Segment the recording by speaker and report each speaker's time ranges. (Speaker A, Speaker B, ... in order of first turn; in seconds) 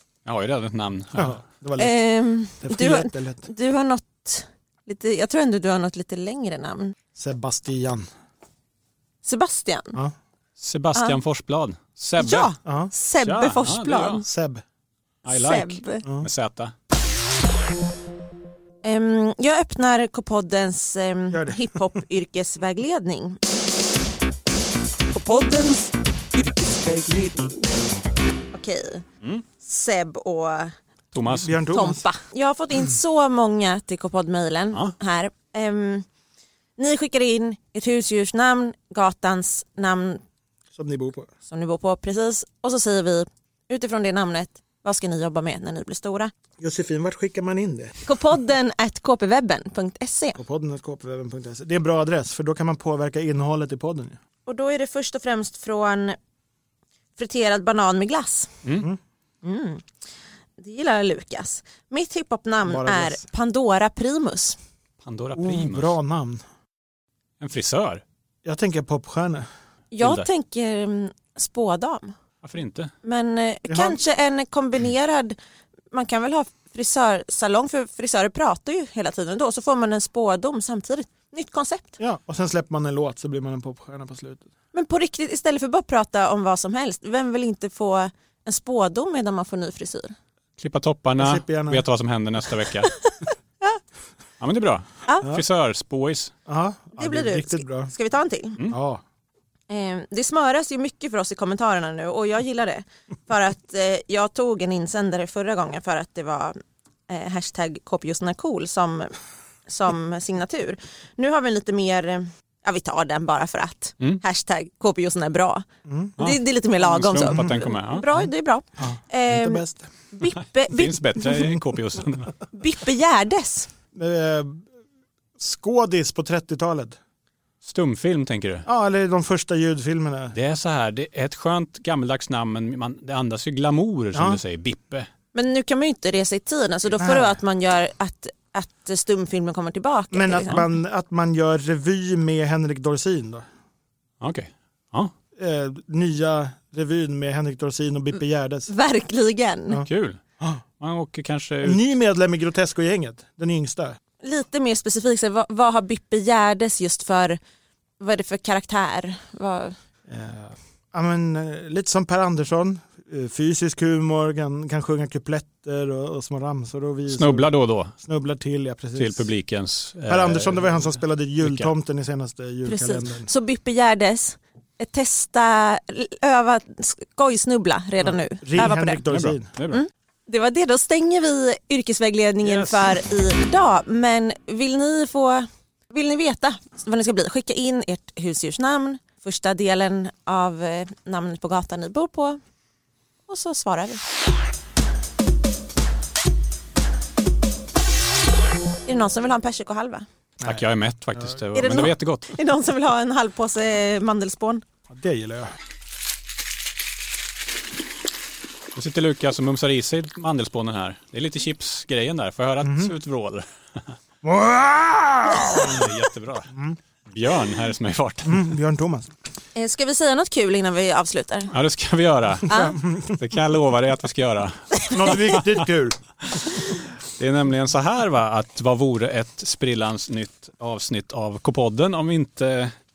Speaker A: 0.2-1.4, 10.6-12.5, 13.2-14.2, 15.2-16.7, 31.1-31.6, 65.0-65.9, 67.4-68.0, 70.0-70.2, 72.4-72.9, 90.6-93.0, 94.4-96.3, 116.2-118.1, 120.7-122.3, 127.6-128.7, 130.3-135.1, 144.2-145.1, 149.8-150.2, 150.8-151.8, 167.1-167.9, 169.0-171.7, 179.1-179.8, 182.4-182.8, 200.4-202.3, 208.7-213.9, 215.5-216.5, 217.1-218.4, 221.5-225.6, 227.1-232.7
Speaker B: 1.1-2.0, 2.6-3.5, 7.2-8.1, 12.6-12.9, 14.2-14.6, 21.3-21.6, 31.3-32.0, 40.7-41.3, 46.6-48.0, 50.4-54.2, 62.6-63.2, 65.3-66.4, 68.4-69.5, 73.7-74.0, 82.0-84.5, 91.2-91.8, 96.5-97.9, 98.7-99.0, 115.8-116.2, 117.2-117.5, 118.8-119.9, 123.9-124.6, 125.4-127.0, 128.7-130.3, 134.1-134.4, 137.0-137.4, 140.1-143.4, 145.4-148.7, 151.6-154.0, 160.1-169.3, 170.1-173.3, 178.0-179.5, 204.9-205.5, 212.6-212.9, 214.2-215.9, 216.5-216.8, 218.2-219.1, 222.5-223.2, 224.9-226.0
Speaker C: 1.8-6.9, 9.2-10.0, 12.2-14.2, 15.3-16.0, 18.8-23.4, 25.1-26.0, 26.8-27.4, 28.5-29.0, 29.6-30.8, 31.7-36.0, 36.8-40.2, 41.5-46.3, 48.0-50.4, 54.5-56.2, 57.1-58.6, 59.4-59.8, 60.6-64.6, 69.9-72.2, 73.0-75.4, 75.9-82.0, 84.7-90.1, 97.0-98.6, 99.7-109.1, 109.7-115.7, 116.2-121.5, 122.5-123.7, 135.3-140.6, 148.7-149.8, 154.2-157.4, 158.0-159.8, 172.6-179.0, 179.7-192.4, 193.3-194.0, 198.8-200.1, 201.5-204.6, 219.6-221.5, 222.5-222.8